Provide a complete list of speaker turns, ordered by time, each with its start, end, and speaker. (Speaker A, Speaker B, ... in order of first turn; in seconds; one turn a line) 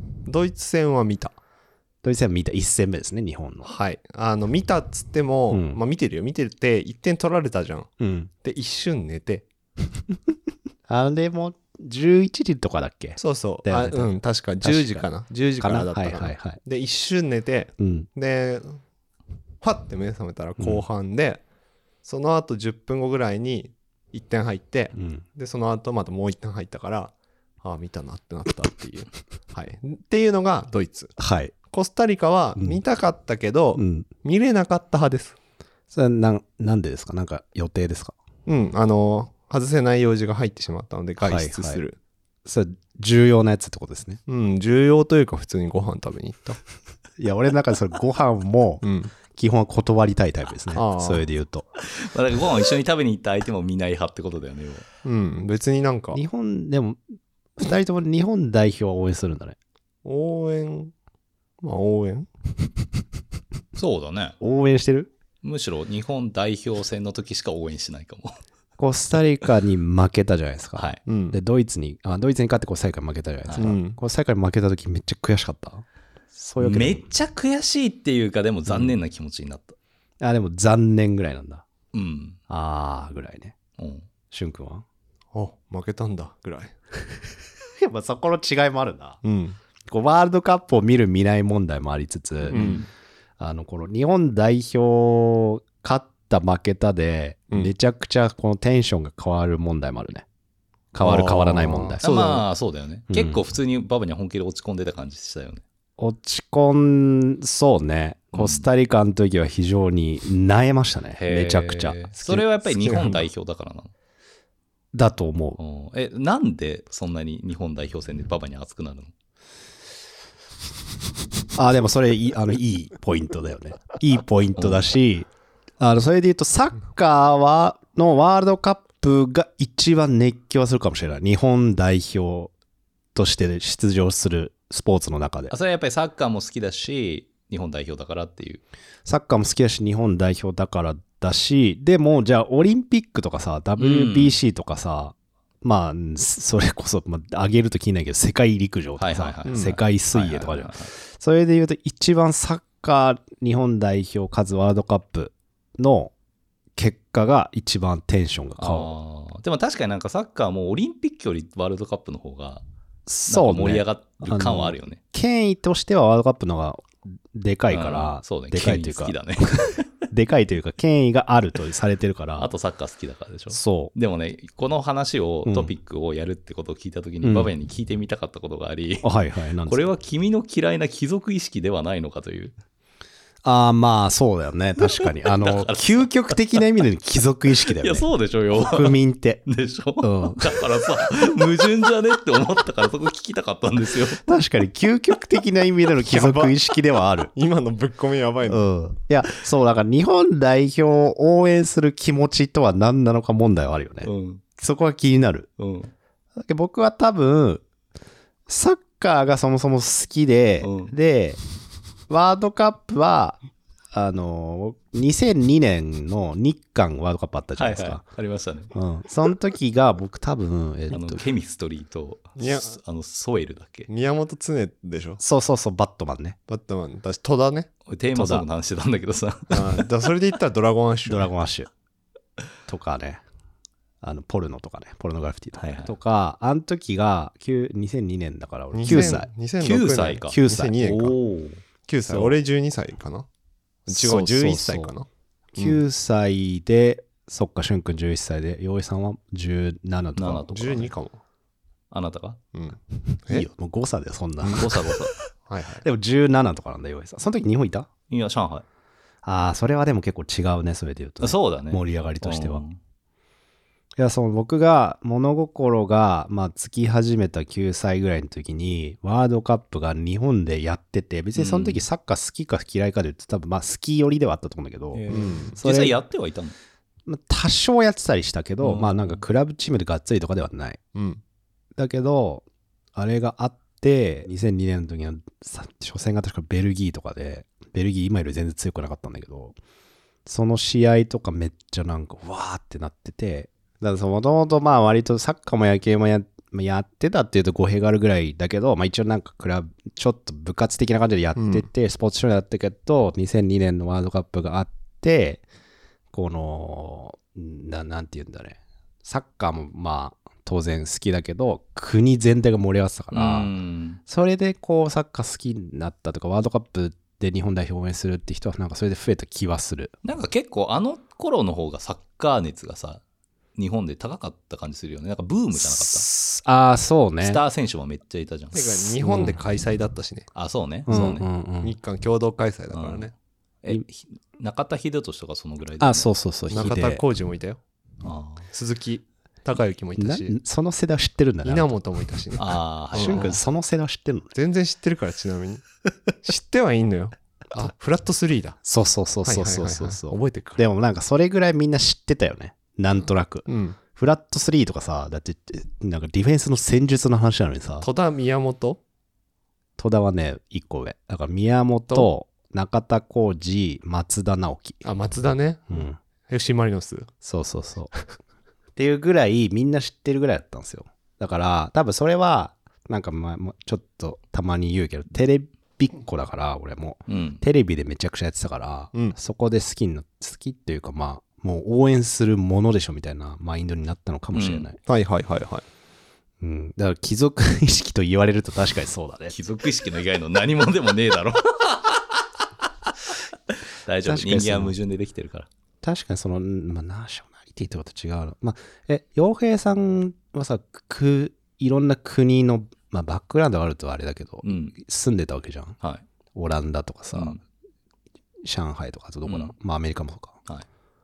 Speaker A: 0.2-1.4
Speaker B: 2.0-3.7
Speaker A: 3.6-7.9
Speaker B: 5.5-5.8
Speaker B: 8.0-8.3
Speaker A: 8.4-9.4
Speaker B: 10.9-15.1
Speaker A: 13.2-18.8
Speaker B: 15.6-16.6
Speaker B: 17.8-18.1
Speaker A: 19.6-21.4
Speaker B: 20.6-20.8
Speaker A: 22.0-31.1
Speaker B: 24.9-25.2
Speaker B: 31.2-31.5
Speaker A: 31.7-35.4
Speaker B: 33.8-34.1
Speaker B: 35.9-38.1
Speaker A: 38.5-42.0
Speaker B: 41.2-41.8
Speaker B: 42.4-44.2
Speaker A: 44.3-46.6
Speaker B: 47.2-51.6
Speaker A: 48.8-49.1
Speaker A: 50.7-51.2
Speaker C: 51.8-54.8
Speaker A: 55.0-56.2
Speaker B: 56.1-59.6
Speaker A: 60.0-60.9
Speaker A: 61.6-62.3
Speaker C: 63.8-64.3
Speaker B: 64.4-65.1
Speaker C: 65.4-68.4
Speaker B: 68.8-77.1
Speaker A: 71.0-71.4
Speaker C: 73.4-73.7
Speaker A: 73.6-74.0
Speaker C: 76.6-79.8
Speaker B: 78.7-78.9
Speaker B: 80.2-81.7
Speaker C: 81.9-82.4
Speaker B: 82.5-83.5
Speaker C: 83.8-84.1
Speaker B: 84.3-84.8
Speaker A: 85.3-86.7
Speaker B: 87.8-89.2
Speaker A: 89.2-89.6
Speaker B: 89.9-92.8
Speaker C: 92.5-92.9
Speaker A: 92.5-92.8
Speaker B: 93.4-100.2
Speaker B: 100.9-102.0
Speaker A: 101.0-102.4
Speaker C: 101.0-105.6
Speaker B: 103.1-103.4
Speaker B: 106.0-112.4
Speaker C: 108.3-108.7
Speaker C: 111.2-113.9
Speaker A: 112.6-113.3
Speaker B: 114.9-115.6
Speaker C: 115.6-119.1
Speaker B: 121.5-125.3
Speaker C: 124.6-124.8
Speaker B: 125.8-132.5
Speaker B: 133.1-135.5
Speaker C: 135.5-138.6
Speaker B: 139.0-156.1
Speaker C: 143.8-144.4
Speaker C: 149.0-150.9
Speaker A: 149.5-149.7
Speaker B: 156.8-158.9
Speaker C: 158.6-162.6
Speaker B: 163.1-169.2
Speaker C: 163.3-165.0
Speaker C: 167.7-169.9
Speaker B: 170.1-172.5
Speaker C: 172.4-179.1
Speaker B: 173.5-173.9
Speaker B: 175.4-175.7
Speaker B: 177.2-177.5
Speaker B: 179.0-179.9
Speaker C: 179.7-182.5
Speaker B: 183.4-189.4
Speaker C: 185.3-186.3
Speaker C: 187.8-194.2
Speaker B: 190.0-190.6
Speaker B: 194.2-197.3
Speaker A: 196.0-196.6
Speaker A: 197.3-198.6
Speaker B: 198.5-205.5
Speaker C: 204.0-204.4
Speaker C: 205.6-205.9
Speaker B: 206.4-207.6
Speaker B: 208.5-211.4
Speaker C: 210.6-210.9
Speaker B: 212.1-213.4
Speaker B: 213.9-218.0
Speaker C: 217.6-218.7
Speaker B: 218.7-221.2
Speaker C: 220.9-223.9
Speaker A: 222.4-222.8
Speaker A: 223.9-225.2
Speaker B: 225.2-226.3
Speaker A: 226.5-227.7
Speaker C: 227.9-229.8
Speaker B: 228.1-228.4
Speaker A: 229.5-231.3
Speaker B: 231.1-231.7
Speaker B: 232.7-233.2
Speaker B: 234.0-239.3
Speaker C: 235.6-235.9
Speaker A: 238.7-241.2
Speaker C: 238.8-242.3
Speaker B: 240.3-240.8
Speaker A: 241.9-243.3
Speaker A: 243.9-245.8
Speaker B: 243.9-244.9
Speaker B: 245.6-250.9
Speaker C: 250.2-250.8
Speaker A: 250.5-251.2
Speaker C: 251.9-252.4
Speaker A: 252.5-253.5
Speaker B: 253.1-255.2
Speaker C: 254.5-255.1
Speaker A: 255.5-255.8
Speaker B: 255.8-257.9
Speaker C: 258.1-258.6
Speaker B: 259.2-262.6
Speaker C: 261.2-262.8
Speaker B: 264.0-275.9
Speaker C: 271.3-271.8
Speaker C: 274.9-276.6
Speaker A: 275.1-275.5
Speaker B: 277.1-280.8
Speaker C: 278.6-279.2
Speaker A: 280.9-281.2
Speaker B: 281.8-289.6
Speaker B: 290.2-305.4
Speaker A: 301.4-301.6
Speaker B: 306.1-313.5
Speaker C: 313.1-314.0
Speaker B: 314.1-319.9
Speaker C: 320.0-323.0
Speaker C: 323.6-326.1
Speaker B: 325.6-327.4
Speaker C: 327.2-328.8
Speaker A: 328.5-330.3
Speaker B: 329.0-329.4
Speaker C: 330.3-331.2
Speaker B: 330.9-331.8
Speaker A: 331.6-333.1
Speaker C: 332.7-333.1
Speaker C: 333.6-336.1
Speaker B: 335.8-337.0
Speaker A: 336.5-337.6
Speaker C: 338.0-338.4
Speaker A: 338.5-340.4
Speaker B: 340.0-341.7
Speaker A: 341.4-343.3
Speaker C: 342.4-343.4
Speaker B: 342.9-344.3
Speaker A: 344.3-345.6
Speaker A: 346.2-348.6
Speaker B: 348.6-357.9
Speaker A: 349.2-350.6
Speaker A: 353.5-353.8
Speaker A: 357.8-358.8
Speaker B: 359.8-364.8
Speaker A: 364.8-367.1
Speaker B: 365.7-366.0
Speaker B: 367.2-367.9
Speaker B: 368.8-384.8
Speaker C: 377.1-377.4
Speaker C: 384.3-384.7
Speaker A: 384.9-385.6
Speaker B: 386.4-389.3
Speaker C: 389.3-392.2
Speaker C: 393.5-395.5
Speaker B: 394.0-394.7
Speaker B: 395.8-405.8
Speaker C: 404.4-404.7
Speaker B: 406.3-407.4
Speaker C: 407.1-407.4
Speaker B: 408.4-410.4
Speaker C: 409.2-409.5